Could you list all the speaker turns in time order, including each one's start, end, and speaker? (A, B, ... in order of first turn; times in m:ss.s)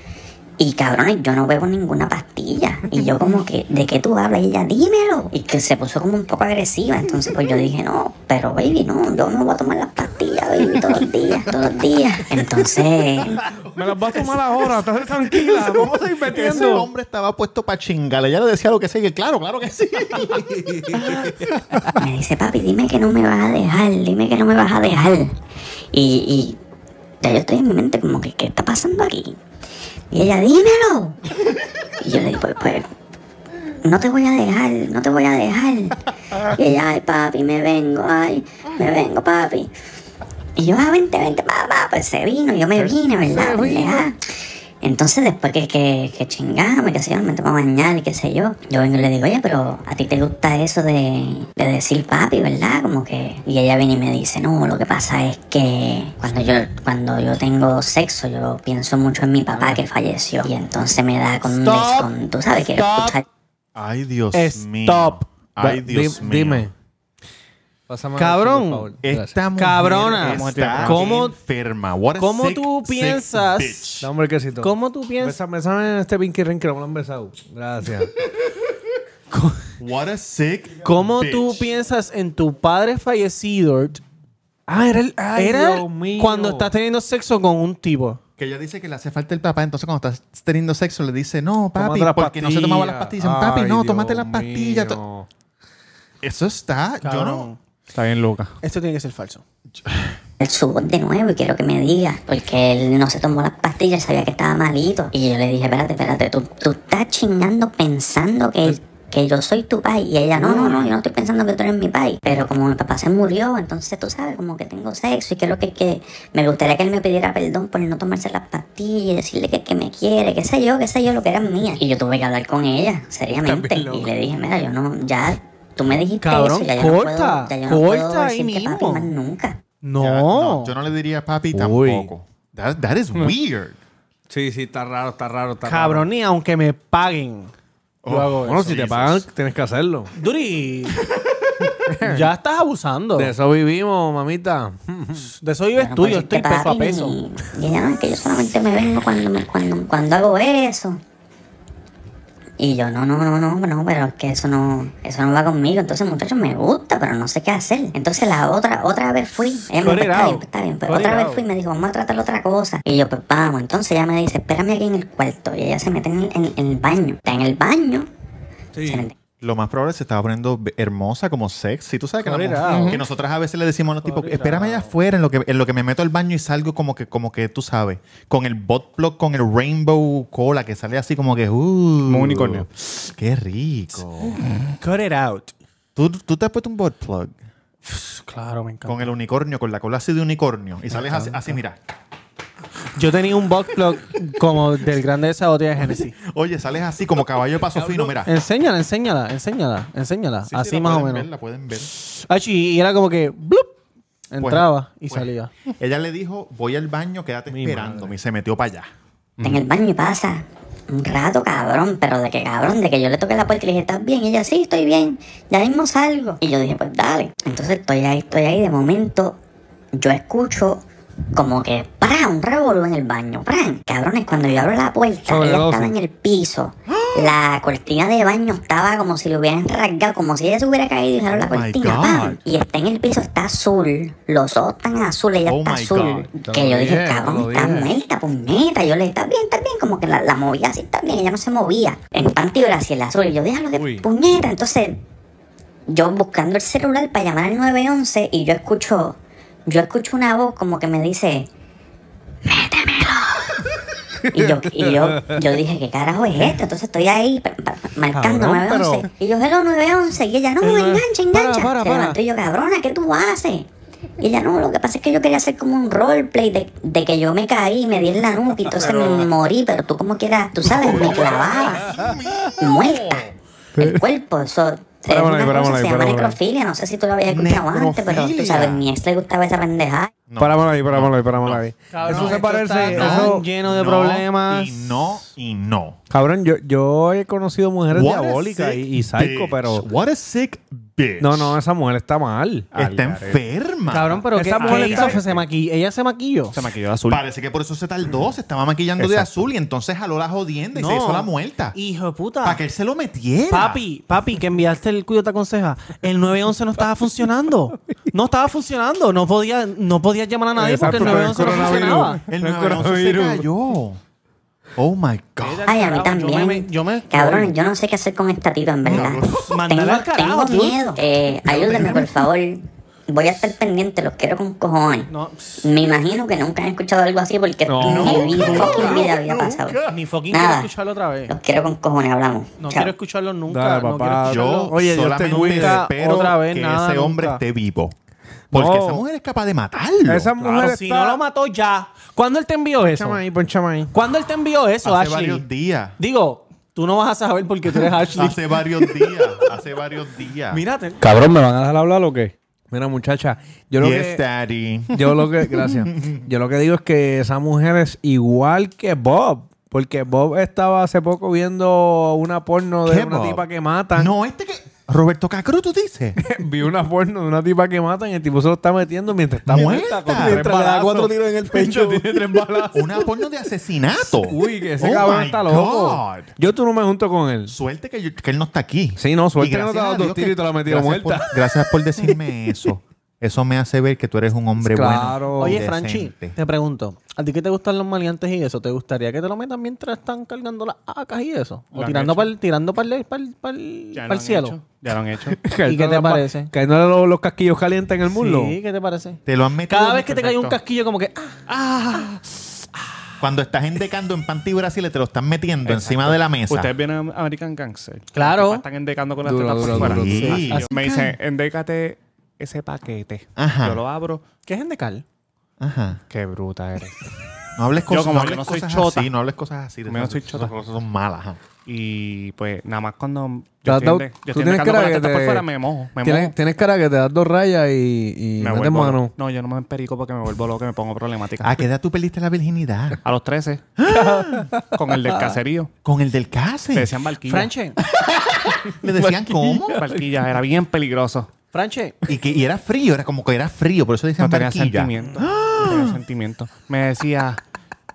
0:00.6-0:13.4 A
0:13.5-0:16.9 B
0:15.2-0:20.4 C
0:20.1-0:21.9 B
0:22.0-0:25.3 A
0:25.9-0:26.6 A
0:27.2-0:29.4 A
0:30.1-0:31.2 A
0:32.0-0:32.9 A
0:33.8-0:39.7 A
0:40.6-0:44.2 A
0:42.8-0:44.0 B
0:44.8-1:03.2 A
0:59.5-0:59.8 D
1:01.5-1:02.1 D
1:02.8-1:03.1 D
1:03.7-1:06.7 C
1:04.3-1:05.2 D
1:05.6-1:06.7 B
1:07.9-1:09.4 B
1:08.2-1:08.9 D
1:09.0-1:14.1 C
1:09.6-1:11.4 D
1:10.2-1:11.2 E
1:12.2-1:14.0 D
1:14.0-1:18.1 B
1:14.6-1:15.4 D
1:19.8-1:21.6 C
1:20.8-1:24.0 D
1:24.7-1:26.7 B
1:25.3-1:28.2 D
1:28.4-1:35.0 C
1:31.8-1:35.3 B
1:36.2-1:37.5 C
1:37.0-1:37.6 D
1:37.9-1:38.5 E
1:38.6-1:39.4 D
1:39.7-1:40.1 C
1:40.4-2:09.6 A
1:50.4-1:50.9 B
2:03.4-2:04.1 B
2:06.2-2:09.1 D
2:09.8-2:10.7 D
2:10.0-2:13.8 C
2:11.5-2:12.1 B
2:14.3-2:16.0 B
2:15.6-2:17.5 D
2:18.0-2:19.2 C
2:18.1-2:18.7 D
2:18.4-2:20.1 B
2:20.1-2:21.0 D
2:21.8-2:22.3 B
2:22.0-2:23.3 D
2:23.2-2:25.3 B
2:25.4-2:27.2 D
2:25.8-2:31.0 A
2:32.6-2:48.1 A
2:39.8-2:41.4 D
2:48.7-2:49.1 B
2:48.8-2:49.2 A
2:49.4-3:04.4 C
2:52.2-2:53.0 D
2:52.7-2:53.0 E
2:54.0-2:54.9 D
3:02.0-3:02.7 E
3:04.8-3:05.5 D
3:06.0-3:07.3 C
3:07.8-3:09.1 D
3:08.8-3:11.8 C
3:11.0-3:11.5 D
3:12.9-3:16.2 D
3:16.1-3:18.3 C
3:18.2-3:21.3 D
3:20.4-3:21.9 C
3:22.0-3:23.7 D
3:24.3-3:25.5 D
3:24.4-3:28.9 C
3:27.5-3:28.1 B
3:29.4-3:39.4 A
3:39.9-3:40.8 A
3:41.3-4:05.0 A
3:45.3-3:45.9 B
3:46.9-3:47.4 C
3:51.4-3:52.4 C
3:55.4-3:56.3 C
3:56.4-3:57.9 B
4:03.7-4:04.1 B
4:05.9-4:11.5 A
4:12.4-4:13.6 A
4:14.3-4:23.7 A
4:14.3-4:15.4 B
4:18.1-4:19.1 B
4:20.6-4:22.2 D
4:24.2-4:31.9 A
4:28.7-4:29.3 B
4:30.8-4:32.5 B
4:30.8-4:33.4 C
4:32.6-4:33.2 A
4:33.8-4:34.0 B
4:33.8-4:40.1 A
4:35.1-4:36.4 B
4:37.3-4:38.8 C
4:40.3-4:46.0 C
4:40.4-4:43.4 B
4:41.9-4:45.0 D
4:46.1-4:49.8 B
4:47.9-4:51.6 C
4:51.2-4:52.7 B
4:52.7-4:54.2 C
4:52.7-4:53.4 E
4:53.9-4:56.5 D
4:54.3-4:55.2 B
4:54.6-4:55.2 E
4:56.5-4:57.2 E
4:57.1-5:01.8 C
4:59.0-4:59.4 E
5:00.7-5:02.6 D
5:02.4-5:03.8 C
5:03.5-5:12.2 D
5:10.6-5:13.4 B
5:10.8-5:14.0 C
5:14.8-5:15.7 C
5:15.4-5:17.5 D
5:15.6-5:25.1 A
5:18.8-5:19.6 C
5:19.4-5:21.0 D
5:21.6-5:22.0 D
5:21.6-5:22.0 C
5:25.1-5:25.7 D
5:25.6-5:30.7 A
5:27.7-5:29.0 B
5:27.8-5:29.9 C
5:28.6-5:28.9 D
5:29.9-5:31.3 D
5:31.3-5:32.9 A
5:32.6-5:34.7 D
5:33.5-5:35.8 B
5:34.2-5:37.9 C
5:35.3-5:37.4 D
5:38.5-5:39.0 B
5:38.5-5:40.3 C
5:40.1-5:41.2 B
5:40.4-5:43.2 D
5:42.8-5:43.9 B
5:43.9-5:45.4 D
5:44.8-5:46.0 C
5:46.0-5:49.0 D
5:48.1-5:50.6 C
5:50.5-5:51.0 D
5:51.0-5:54.2 B
5:53.8-5:56.2 C
5:54.9-6:04.1 B
6:02.8-6:06.2 C
6:06.2-6:13.0 B
6:09.4-6:10.5 C
6:10.1-6:12.2 D
6:12.7-6:16.3 C
6:14.1-6:17.5 B
6:17.5-6:26.4 C
6:19.0-6:21.3 B
6:24.6-6:25.6 B
6:25.4-6:34.6 D
6:31.7-6:32.3 E
6:33.9-6:35.4 E
6:35.4-6:38.6 B
6:35.6-6:36.5 D
6:38.1-6:41.4 D
6:39.2-6:40.2 C
6:40.0-6:40.6 E
6:41.5-6:42.6 E
6:43.2-6:46.7 C
6:45.6-6:54.2 E
6:48.1-6:48.6 D
6:49.2-6:50.4 B
6:49.6-6:50.9 C
6:50.2-6:51.1 D
6:53.4-6:53.8 C
6:54.5-6:55.0 D
6:55.6-6:56.0 C
6:56.1-6:57.0 E
6:57.6-7:01.4 C
6:57.9-6:59.1 E
6:59.9-7:00.5 E
7:01.6-7:06.3 E
7:03.6-7:05.4 B
7:06.0-7:09.1 B
7:08.4-7:11.6 E
7:11.4-7:13.0 C
7:13.0-7:13.6 E
7:13.8-7:14.5 C
7:13.9-7:15.4 B
7:14.7-7:15.7 E
7:15.8-7:17.0 C
7:16.7-7:17.5 E
7:17.3-7:17.8 D
7:17.9-7:19.9 C
7:19.0-7:19.9 B
7:19.8-7:21.3 E
7:21.5-7:22.0 D
7:22.1-7:26.0 C
7:24.2-7:27.4 E